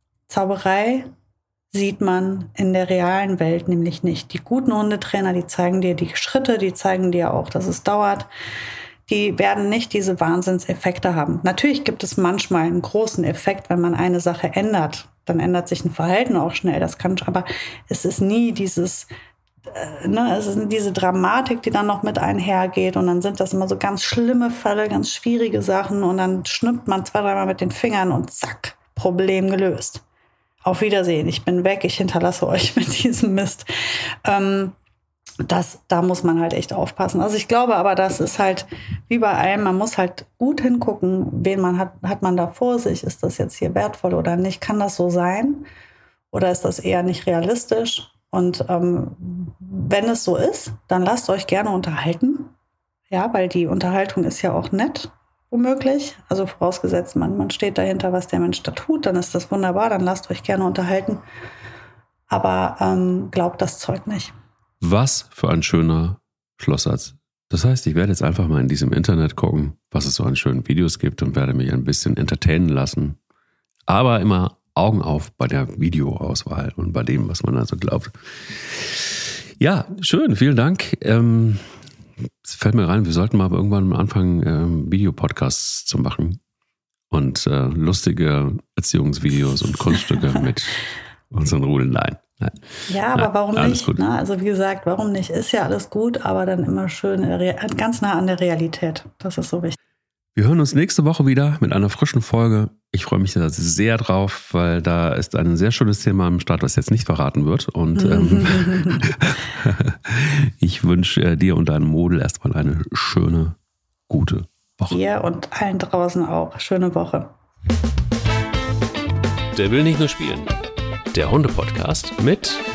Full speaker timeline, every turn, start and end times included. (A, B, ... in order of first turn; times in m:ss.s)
0:00.3-0:01.1 A
0:01.7-0:08.3 A
0:09.1-0:19.1 A
0:19.6-0:30.0 A
0:30.6-0:33.7 A
0:34.2-0:34.8 A
0:35.4-0:45.7 A
0:46.3-0:52.5 A
0:53.1-1:01.2 A
1:02.3-1:04.3 A
1:04.8-1:13.2 B
1:13.9-1:21.8 B
1:22.4-1:26.4 B
1:27.1-1:32.6 B
1:32.9-1:39.8 A
1:33.2-1:34.0 B
1:40.4-1:53.6 B
1:48.0-1:49.0 A
1:54.1-1:55.0 B
1:54.9-1:57.3 A
1:59.6-2:00.5 B
2:01.1-2:02.6 B